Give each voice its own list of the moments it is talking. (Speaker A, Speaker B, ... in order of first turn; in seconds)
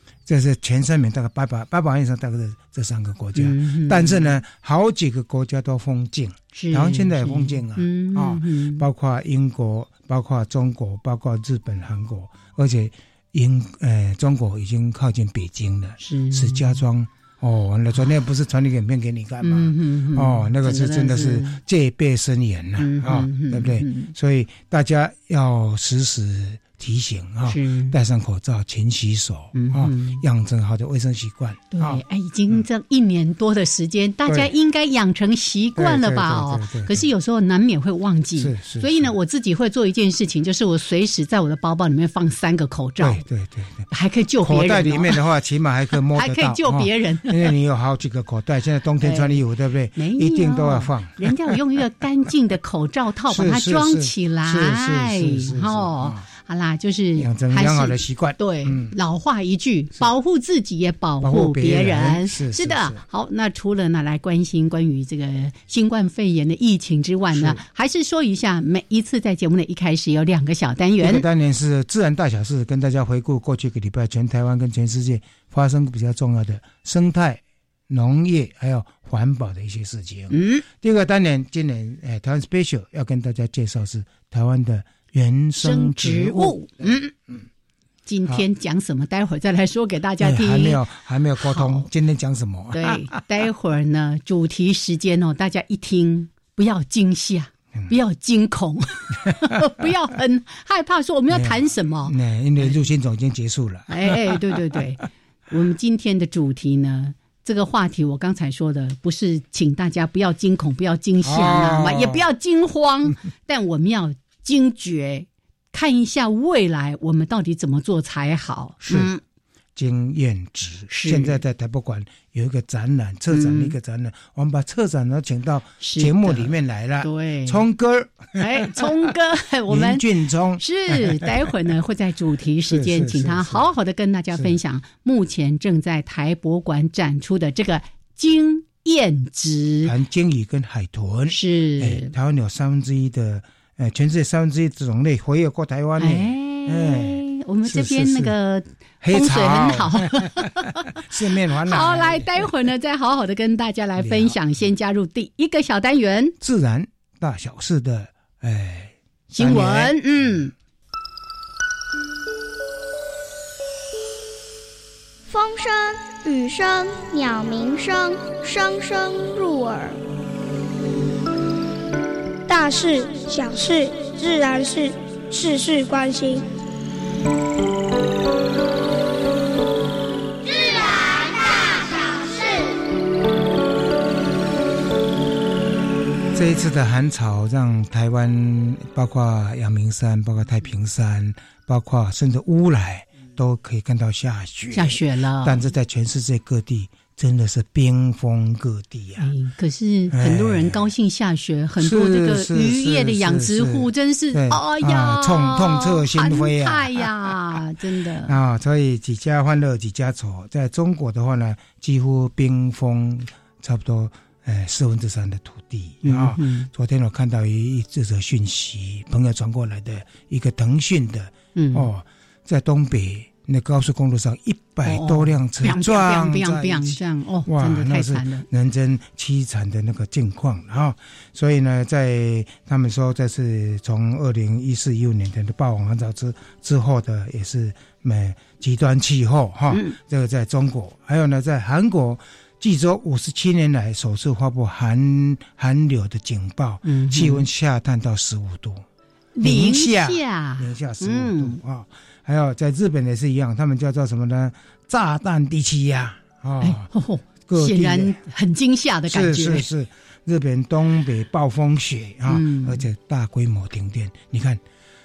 Speaker A: 0.3-32.6, 35.8-37.1, 38.4-39.1, 43.0-43.9, 44.4-51.6, 53.3-56.3, 57.2-58.9, 61.2-63.0, 67.3-67.6, 71.0-87.0, 90.2-93.2, 101.3-104.4, 111.2-112.2, 119.8-128.7, 129.7-131.3, 132.7-133.7, 139.8-148.3, 149.0-152.5, 154.0-154.4, 156.4-160.3, 186.3-199.3, 200.1-200.9, 201.8-207.3, 208.3-248.8, 249.4-256.9, 257.5-258.2, 259.1-264.6
Speaker B: 3.4-4.3, 6.5-8.9, 16.0-16.8, 19.4-21.6, 22.8-24.1, 27.4-28.0, 29.5-30.2, 31.7-43.2, 43.9-45.2, 46.1-47.5, 49.0-49.4, 50.0-71.3, 80.3-80.7, 85.6-87.1, 88.1-90.8, 91.4-91.9, 92.7-102.8, 103.9-119.2, 120.9-121.4, 123.3-123.8, 125.8-127.7, 128.4-130.1, 130.6-139.9, 141.3-142.1, 146.0-151.0, 151.6-156.3, 159.3-160.5, 194.7-195.7, 199.2-208.4, 216.0-216.7, 221.6-221.9, 224.9-228.5, 239.7-240.0, 246.8-247.5, 249.4-251.6, 256.6-259.7, 262.3-262.9
Speaker C: 165.3-170.0, 172.5-176.5, 180.6-182.6